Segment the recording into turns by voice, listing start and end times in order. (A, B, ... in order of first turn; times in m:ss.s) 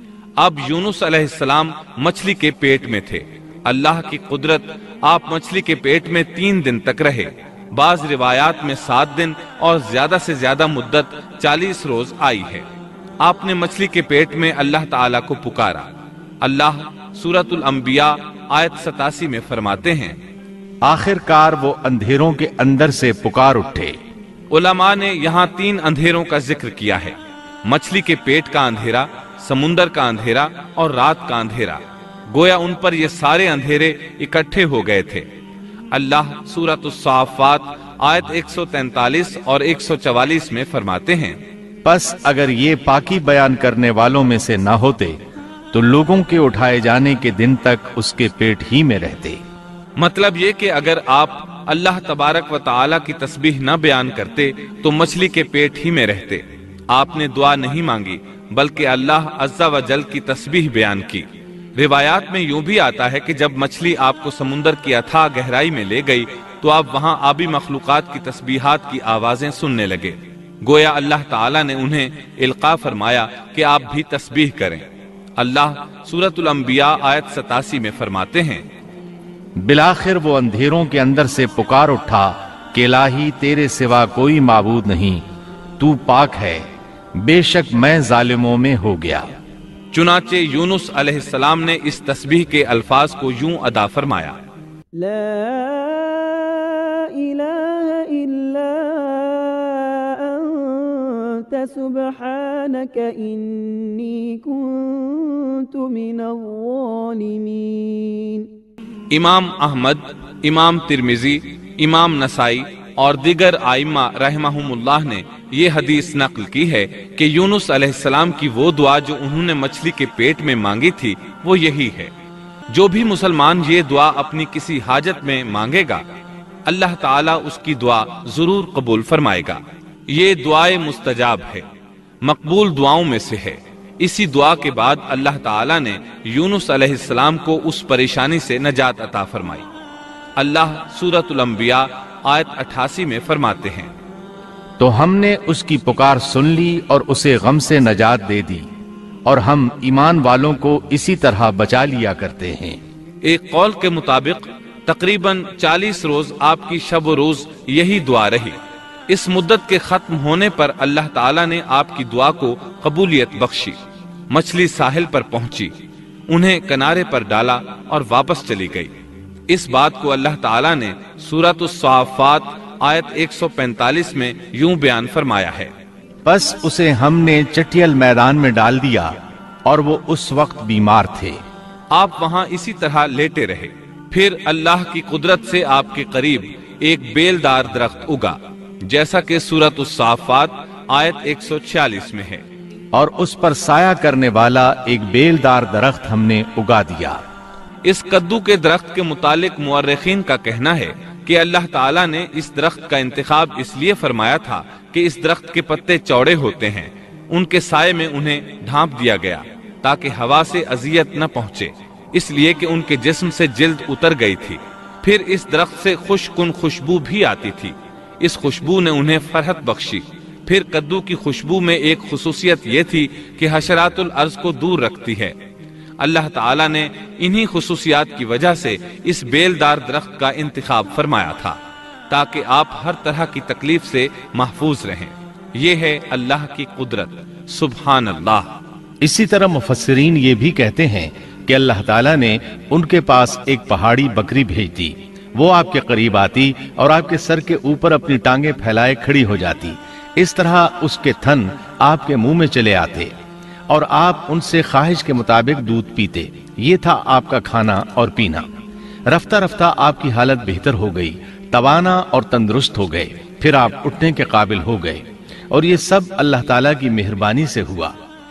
0:00.4-0:12.7 A
0:13.2-0:15.9 A
0:16.4-0:20.2 A
0:20.8-0:24.0 B
0:24.5-0:35.3 A
0:35.9-0:41.4 A
0:41.8-0:45.2 B
0:45.7-0:49.4 B
0:50.0-1:14.8 A
1:15.4-1:18.6 A
1:19.6-1:25.2 B
1:25.8-1:26.6 B
1:27.2-1:29.3 B
1:29.9-1:34.4 A
1:35.0-1:48.5 C
1:49.1-2:02.1 A
2:02.7-2:06.0 A
2:06.7-2:11.7 A
2:12.2-2:19.7 A
2:20.4-2:23.9 A
2:24.8-2:28.7 B
2:29.3-2:32.8 B
2:33.2-2:38.6 A
2:39.1-2:45.8 A
2:46.3-2:48.9 A
2:49.5-2:55.7 A
2:56.2-2:59.1 B
2:59.7-3:01.4 B
3:01.9-3:12.4 A
3:13.0-3:17.2 B
3:17.8-3:45.4 A
3:46.0-3:51.6 A
3:52.1-3:58.6 A
3:59.0-4:13.1 B
4:13.7-4:18.5 B
4:19.1-4:28.0 B